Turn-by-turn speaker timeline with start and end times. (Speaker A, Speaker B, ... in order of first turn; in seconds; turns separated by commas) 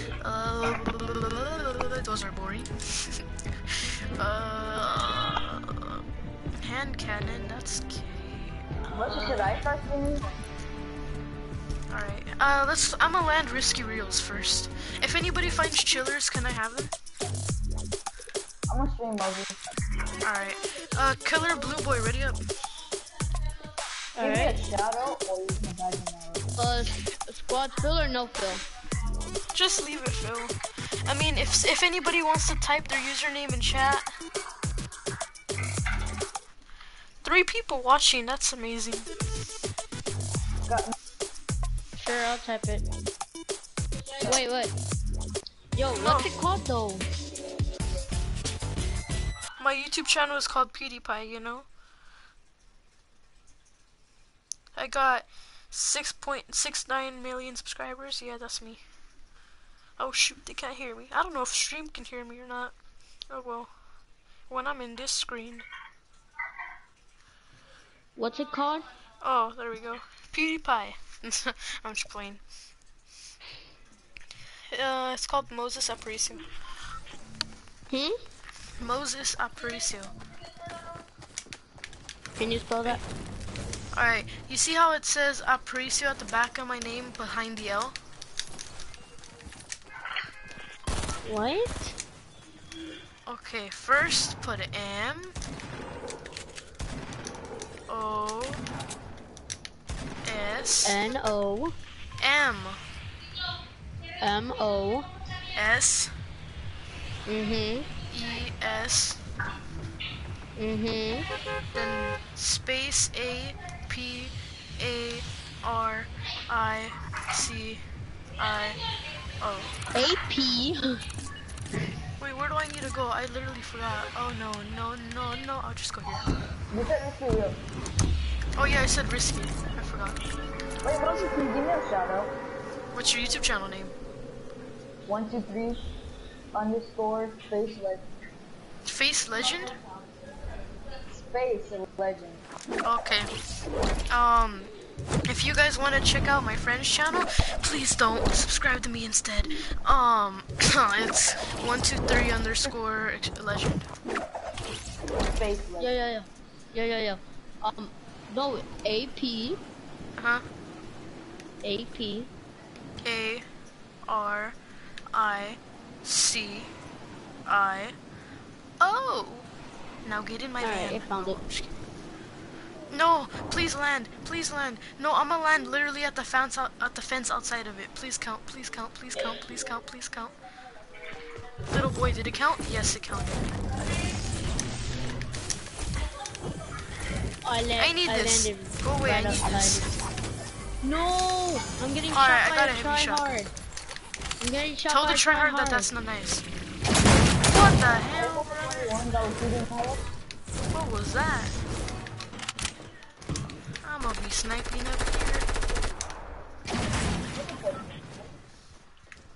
Speaker A: 0.2-6.0, Speaker A: 6.6-8.6, Speaker B: 8.9-10.4, Speaker A: 11.9-16.9, Speaker B: 18.7-19.6, Speaker A: 20.2-22.4, Speaker C: 24.1-24.6, Speaker B: 24.2-26.5, Speaker C: 26.6-28.6, Speaker A: 29.5-34.1, Speaker A: 37.2-39.1, Speaker B: 40.7-40.9, Speaker C: 42.0-42.9, Speaker C: 44.2-44.7, Speaker C: 45.7-47.0, Speaker A: 46.0-46.3, Speaker A: 49.6-51.7, Speaker A: 54.7-58.8, Speaker A: 60.0-62.7, Speaker A: 63.3-63.7, Speaker A: 64.5-65.7, Speaker C: 68.2-68.9, Speaker A: 69.2-72.4, Speaker A: 74.7-76.4, Speaker C: 77.9-78.2, Speaker A: 78.8-80.1, Speaker C: 82.4-83.0, Speaker A: 83.9-88.0, Speaker C: 91.2-91.9, Speaker A: 93.3-95.3, Speaker A: 97.9-98.6, Speaker A: 100.2-101.0, Speaker C: 100.8-101.7, Speaker A: 102.2-102.8, Speaker C: 104.2-105.1, Speaker A: 105.5-106.1, Speaker C: 107.2-107.9, Speaker A: 108.1-109.2, Speaker C: 110.6-111.3, Speaker A: 111.7-117.8, Speaker A: 118.4-118.8, Speaker A: 119.4-119.8, Speaker C: 119.9-121.0, Speaker A: 122.2-126.3, Speaker B: 126.7-127.6, Speaker A: 128.6-130.2, Speaker B: 130.8-132.4, Speaker A: 132.9-133.9, Speaker B: 135.1-135.8, Speaker B: 136.5-138.1, Speaker A: 138.8-139.8, Speaker B: 141.2-142.4, Speaker A: 142.8-143.3, Speaker A: 144.1-144.7, Speaker A: 145.2-153.9, Speaker B: 155.3-155.9, Speaker C: 155.8-159.6, Speaker A: 160.2-160.4, Speaker C: 161.6-162.3, Speaker A: 163.0-163.4, Speaker A: 164.1-164.6, Speaker A: 165.1-166.7, Speaker A: 167.4-167.9, Speaker A: 168.8-169.5, Speaker A: 170.0-171.8, Speaker C: 170.6-171.4, Speaker A: 172.9-180.3, Speaker A: 181.7-183.5, Speaker C: 187.4-189.9, Speaker A: 187.8-189.8, Speaker C: 190.8-193.5, Speaker A: 192.1-193.3, Speaker C: 194.4-195.9, Speaker A: 194.9-196.4, Speaker A: 197.5-198.9, Speaker B: 198.2-200.0, Speaker A: 200.7-201.6, Speaker A: 203.8-205.5, Speaker B: 207.3-208.2